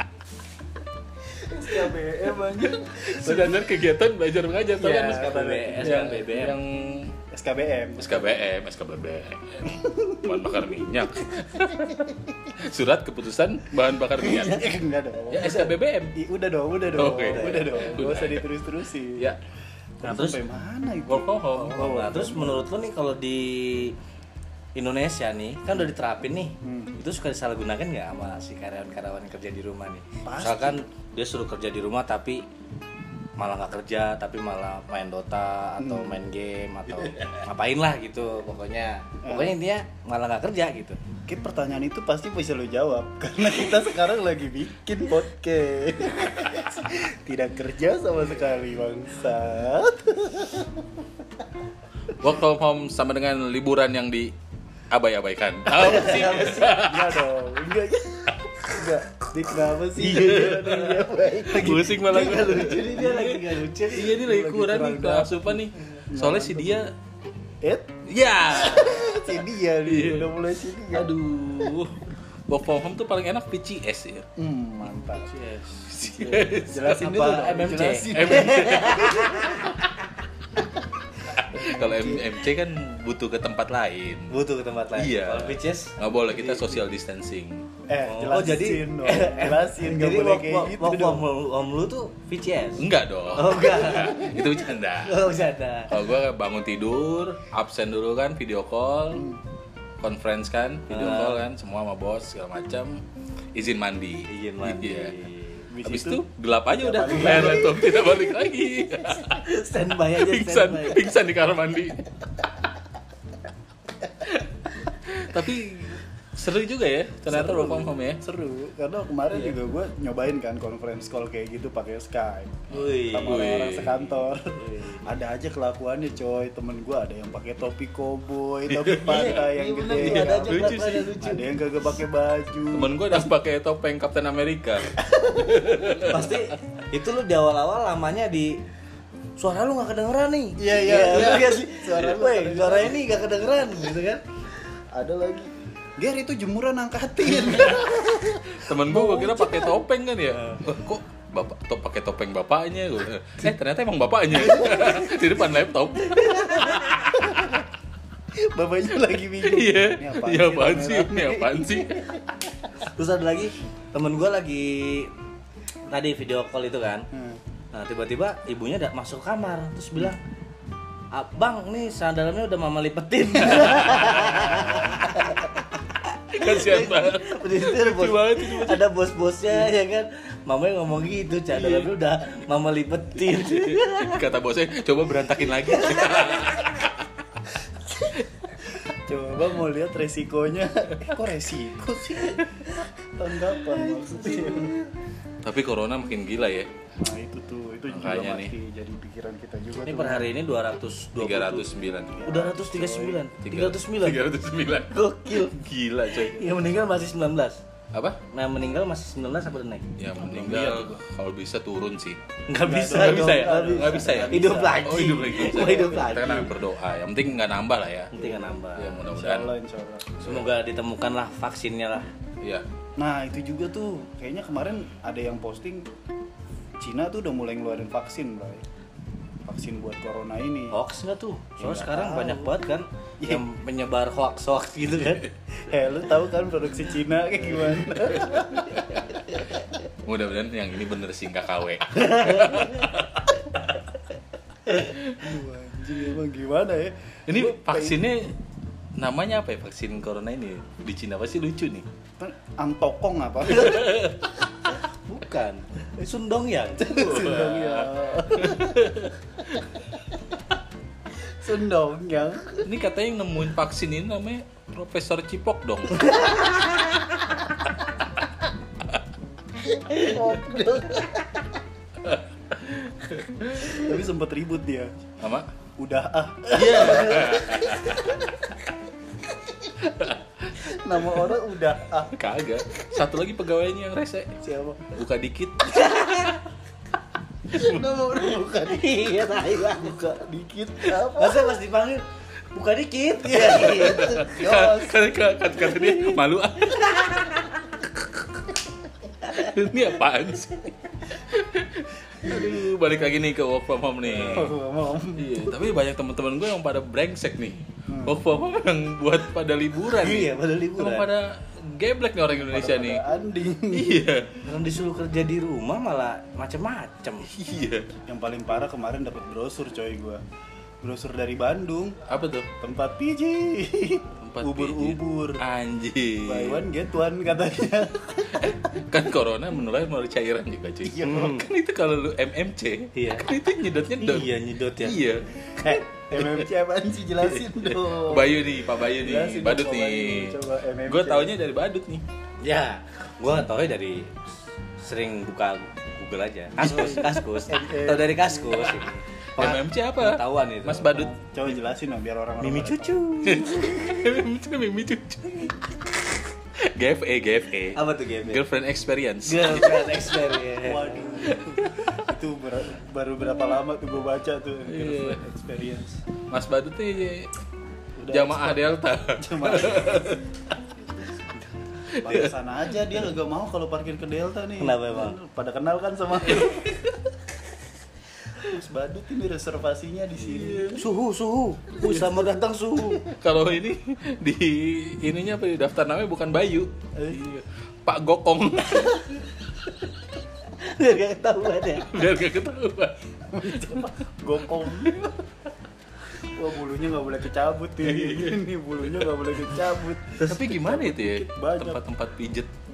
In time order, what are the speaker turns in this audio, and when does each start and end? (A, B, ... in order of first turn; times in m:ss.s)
0:01.4-0:03.7 A
0:02.7-0:07.1 B
0:04.8-0:06.6 C
0:04.8-0:06.2 A
0:07.3-0:08.4 A
0:08.0-0:14.7 B
0:09.6-0:10.3 A
0:14.2-0:19.4 A
0:15.3-0:16.2 B
0:16.9-0:18.5 B
0:17.0-0:18.0 C
0:20.0-0:22.6 A
0:20.0-0:20.4 C
0:21.1-0:22.0 B
0:21.7-0:24.0 C
0:24.7-0:32.4 C
0:26.6-0:26.9 A
0:30.2-0:30.8 A
0:33.4-0:41.0 C
0:35.8-0:36.2 A
0:39.2-0:39.6 A
0:41.3-0:50.9 A
0:52.1-0:54.3 B
0:54.9-0:57.2 B
0:55.7-0:56.7 C
0:56.6-1:02.8 A
1:00.0-1:06.9 B
1:01.6-1:04.2 C
1:04.1-1:06.8 A
1:07.6-1:08.0 A
1:08.1-1:10.3 B
1:08.5-1:11.1 A
1:10.9-1:14.3 B
1:14.4-1:15.4 A
1:15.0-1:15.9 C
1:15.8-1:17.1 B
1:16.0-1:19.8 A
1:16.9-1:19.8 C
1:18.1-1:19.7 B
1:21.3-1:24.3 B
1:21.5-1:22.3 A
1:24.3-1:26.8 C
1:25.0-1:27.6 B
1:27.9-1:31.3 A
1:28.0-1:36.0 C
1:32.8-1:35.3 B
1:35.9-1:39.2 B
1:39.1-1:39.4 A
1:40.0-1:43.0 B
1:40.9-1:41.4 C
1:43.5-1:45.1 B
1:44.3-1:45.7 C
1:45.7-1:47.9 A
1:45.8-1:49.5 B
1:47.1-1:47.6 C
1:49.3-1:51.1 C
1:50.1-1:52.1 B
1:54.2-1:58.2 B
1:57.3-2:13.2 A
2:02.7-2:03.6 C
2:03.2-2:04.2 B
2:04.5-2:05.1 C
2:08.7-2:11.1 B
2:09.0-2:11.5 C
2:12.7-2:16.4 B
2:16.0-2:18.6 C
2:19.4-2:24.2 C
2:20.6-2:23.3 A
2:24.9-2:29.8 A
2:27.4-2:27.8 B
2:28.5-2:37.6 B
2:34.5-2:35.0 A
2:36.1-2:36.9 C
2:36.8-2:37.6 A
2:38.3-2:42.2 A
2:39.4-2:42.1 B
2:42.8-2:45.1 C
2:45.9-2:47.1 C
2:47.1-2:47.4 A
2:47.7-2:50.2 C
2:51.1-3:04.2 C
2:53.5-2:54.8 B
2:56.3-2:58.9 B
3:03.4-3:06.9 B
3:05.8-3:06.3 C
3:08.8-3:14.8 A
3:13.7-3:14.9 C
3:15.4-3:16.7 B
3:17.0-3:20.3 A
3:17.9-3:18.5 B
3:19.8-3:21.7 C
3:21.2-3:22.2 B
3:22.1-3:23.2 A
3:22.2-3:24.2 C
3:23.4-3:26.5 B
3:24.9-3:25.6 C
3:26.2-3:27.6 C
3:27.9-3:28.2 B
3:28.3-3:29.9 C
3:30.0-3:32.2 B
3:30.1-3:31.0 A
3:32.5-3:36.5 C
3:32.6-3:36.2 A
3:32.9-3:38.1 B
3:38.1-3:39.1 C
3:38.2-3:40.2 A
3:38.8-3:39.5 B
3:40.2-3:42.1 C
3:43.0-3:45.9 A
3:46.8-3:48.6 A
3:49.4-3:50.8 A
3:50.7-3:55.3 C
3:51.6-3:52.5 A
3:55.6-3:58.9 A
3:58.8-3:59.0 B
4:00.0-4:03.2 B
4:02.0-4:02.9 C
4:04.7-4:08.0 A
4:04.9-4:05.2 B
4:07.3-4:08.3 B
4:09.0-4:11.8 B
4:12.2-4:14.0 A
4:13.6-4:14.2 B
4:14.6-4:17.5 C
4:16.8-4:18.9 A
4:17.1-4:19.6 B
4:21.2-4:22.6 A
4:22.6-4:26.3 B
4:26.1-4:26.8 C
4:29.8-4:31.4 A
4:29.9-4:30.1 C
4:32.0-4:33.8 B
4:33.6-4:35.0 A
4:35.2-4:35.5 B
4:35.8-4:37.9 A
4:36.5-4:38.1 B
4:37.0-4:37.4 C
4:39.8-4:41.3 B
4:40.6-4:42.2 A
4:42.1-4:44.4 B
4:44.4-4:44.9 A
4:44.9-4:46.3 B
4:45.6-4:46.4 C
4:47.5-4:51.5 A
4:47.5-4:47.8 B
4:48.4-4:50.0 C
4:51.1-4:54.4 C
4:53.4-4:57.5 B
4:53.6-4:55.1 A
4:55.7-4:56.2 C
4:56.7-4:57.6 C
4:59.3-5:04.5 B
5:04.1-5:05.5 A
5:05.2-5:13.0 B
5:07.9-5:08.2 A
5:09.9-5:11.1 C
5:12.4-5:14.1 A
5:13.7-5:14.3 B
5:14.4-5:17.3 C
5:17.3-5:17.9 B
5:18.0-5:20.2 A
5:20.8-5:22.0 A
5:22.1-5:22.5 B
5:22.6-5:25.4 A
5:24.2-5:26.6 B
5:26.2-5:28.6 A
5:28.3-5:35.5 B
5:30.8-5:31.4 A
5:31.0-5:31.5 C
5:32.9-5:33.3 C
5:34.0-5:35.0 C
5:35.6-5:41.3 A
5:36.1-5:36.5 B
5:37.2-5:42.0 B
5:42.4-5:44.2 C
5:44.8-5:51.1 C
5:46.6-5:47.2 B
5:46.6-5:48.8 A
5:49.4-5:51.1 B
5:50.9-5:53.0 A
5:52.4-5:54.0 C
5:53.2-5:55.7 B
5:56.6-6:00.1 B
5:57.7-5:58.4 C
5:59.2-6:01.4 C
6:00.6-6:06.0 A
6:01.3-6:01.7 B
6:04.7-6:05.2 B
6:06.3-6:07.3 B
6:08.0-6:10.2 A
6:08.1-6:10.2 B
6:11.9-6:12.3 B
6:12.0-6:16.9 A
6:14.6-6:15.2 C
6:18.4-6:20.8 A
6:20.3-6:20.8 B
6:20.7-6:23.1 C
6:23.0-6:29.2 B
6:30.5-6:31.9 C
6:31.8-6:33.8 B
6:33.3-6:35.2 A
6:34.7-6:35.1 B
6:36.2-6:41.8 A
6:37.8-6:39.1 B
6:40.2-6:42.5 B